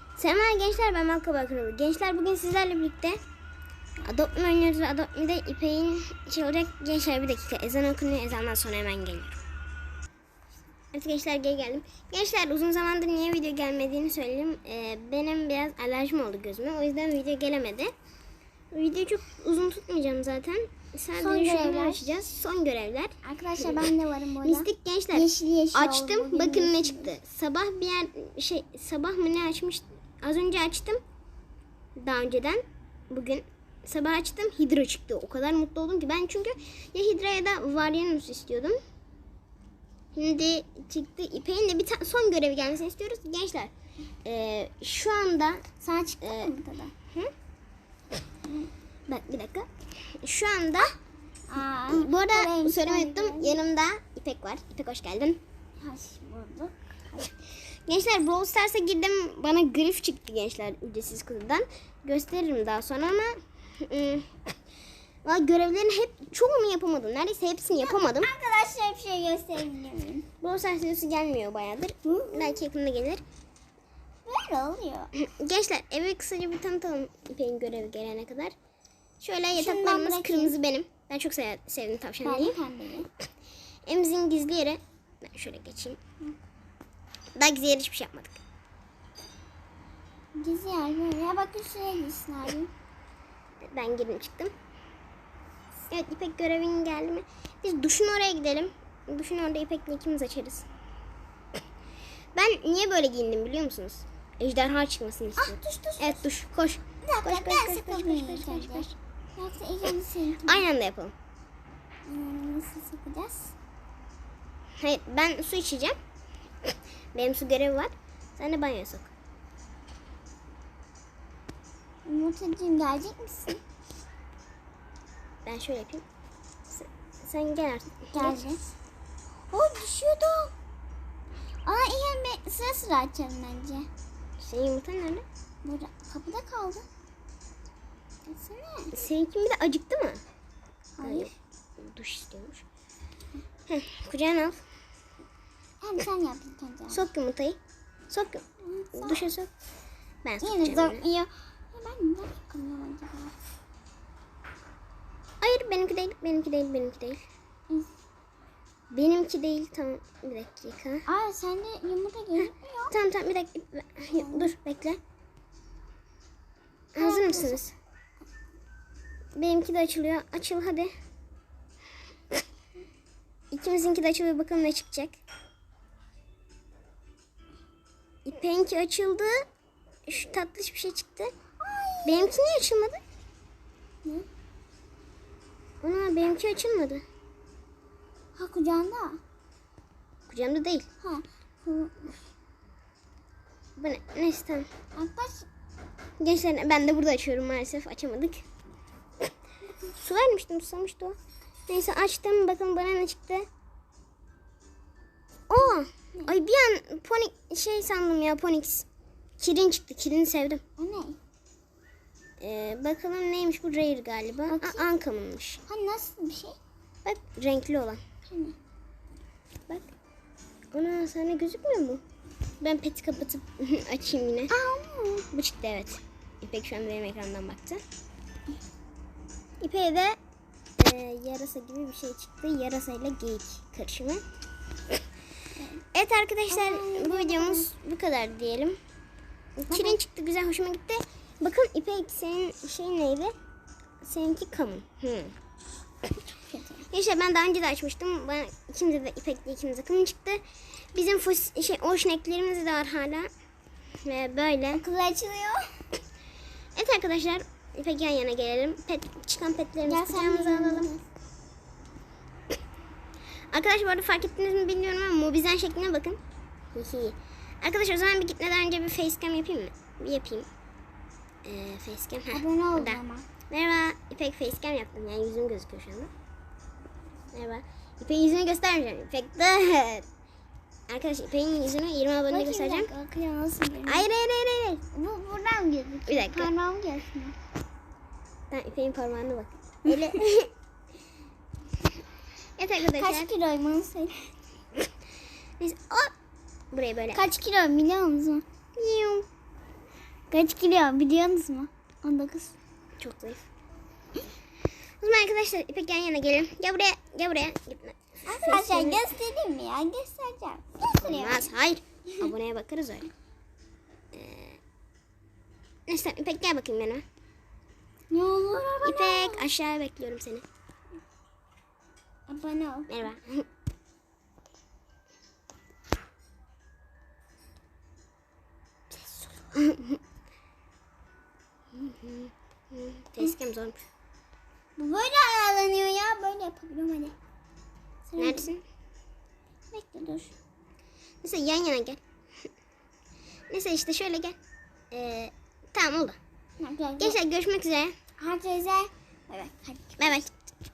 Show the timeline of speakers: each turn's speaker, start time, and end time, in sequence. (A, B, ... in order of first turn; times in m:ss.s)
0:00.2-0:03.2 A
0:04.0-0:09.4 A
0:10.9-0:17.9 A
0:18.7-0:31.0 A
0:21.2-0:22.2 B
0:23.2-0:27.1 B
0:32.0-0:38.8 A
0:40.2-0:43.7 A
0:44.2-0:45.6 A
0:45.8-0:46.9 B
0:46.2-0:46.5 A
0:49.1-0:49.7 A
0:50.2-0:50.9 A
0:51.5-0:53.6 B
0:51.9-0:55.4 A
0:55.8-0:56.7 B
0:57.2-1:04.4 A
1:05.2-1:08.3 A
1:07.8-1:10.3 B
1:10.4-1:13.2 A
1:12.0-1:12.6 B
1:14.3-1:15.1 B
1:15.2-1:18.6 A
1:19.2-1:22.6 A
1:19.6-1:20.6 B
1:22.2-1:23.1 B
1:23.9-1:26.0 A
1:27.4-1:28.4 A
1:30.4-1:32.7 B
1:33.7-1:34.5 A
1:35.9-1:40.7 A
1:42.4-1:48.9 A
1:45.4-1:46.3 B
1:47.0-1:50.6 B
1:50.4-1:51.1 A
1:52.1-1:53.6 B
1:54.8-1:56.0 A
1:57.1-1:59.1 A
2:02.0-2:03.6 B
2:05.4-2:06.0 A
2:06.7-2:08.4 A
2:08.1-2:08.8 B
2:09.5-2:10.5 B
2:11.7-2:13.9 B
2:14.4-2:15.2 A
2:15.6-2:16.9 B
2:18.3-2:18.9 B
2:18.9-2:20.2 A
2:21.0-2:21.4 B
2:21.0-2:22.6 A
2:23.7-2:24.6 A
2:25.8-2:27.0 B
2:26.9-2:27.6 A
2:28.1-2:28.4 A
2:28.6-2:29.3 B
2:29.0-2:29.5 A
2:30.2-2:31.1 A
2:30.4-2:33.3 B
2:35.4-2:37.2 A
2:38.9-2:41.0 A
2:41.1-2:42.9 B
2:42.4-2:45.0 A
2:44.2-2:44.5 B
2:47.0-2:47.7 A
2:47.0-2:47.6 B
2:49.4-2:50.9 A
2:53.5-2:55.2 A
2:58.2-2:59.4 A
3:00.1-3:01.3 A
3:01.6-3:02.3 B
3:02.0-3:03.0 A
3:05.8-3:07.0 A
3:08.4-3:09.2 B
3:10.3-3:10.9 A
3:11.0-3:12.2 B
3:13.8-3:14.7 A
3:15.0-3:15.5 B
3:16.2-3:18.4 A
3:19.9-3:21.2 A
3:21.7-3:23.4 A
3:25.5-3:28.9 A
3:29.4-3:30.6 A
3:30.8-3:31.2 B
3:32.4-3:35.6 A
3:34.5-3:34.8 B
3:35.7-3:36.6 B
3:37.0-3:38.0 A
3:38.3-3:38.6 B
3:40.7-3:42.0 A
3:42.6-3:44.5 A
3:44.5-3:45.3 B
3:45.3-3:47.8 A
3:49.6-3:50.2 A
3:50.8-3:54.2 A
3:55.6-3:55.8 B
3:55.9-3:58.8 A
3:56.5-3:57.7 B
3:59.6-4:03.3 A
3:59.7-4:00.0 B
4:04.0-4:05.3 A
4:06.4-4:06.9 B
4:06.9-4:10.4 A
4:10.9-4:13.3 A
4:14.0-4:14.8 A
4:14.7-4:15.6 B
4:16.8-4:20.9 A
4:19.8-4:21.0 B
4:23.5-4:26.2 A
4:26.8-4:30.5 A
4:31.4-4:36.1 A
4:32.3-4:33.3 B
4:37.3-4:40.1 A
4:40.9-4:42.9 A
4:42.3-4:44.1 B
4:43.9-4:44.8 A
4:44.9-4:47.4 B
4:46.1-4:46.5 A
4:48.5-4:50.5 A
4:49.9-4:50.2 B
4:52.6-4:53.3 A
4:52.9-4:54.3 B
4:55.6-4:56.1 A
4:56.7-4:57.2 A
4:57.1-4:58.4 B
4:58.8-4:59.3 A
5:00.3-5:02.6 B
5:03.0-5:03.5 A
5:05.0-5:09.1 A
5:08.3-5:11.5 B
5:11.0-5:13.1 A
5:14.1-5:14.6 A
5:15.9-5:17.0 A
5:18.1-5:19.5 B
5:18.8-5:20.4 A
5:22.3-5:23.1 B
5:22.9-5:23.4 A
5:28.9-5:30.0 A
5:31.7-5:33.8 A
5:34.8-5:37.2 B
5:38.1-5:38.5 B
5:38.2-5:38.6 A
5:39.7-5:40.3 B
5:41.2-5:42.0 A
5:43.5-5:44.4 A
5:44.9-5:46.2 A
5:46.6-5:47.2 B
5:47.0-5:48.0 A
5:48.2-5:50.0 B
5:50.0-5:50.3 A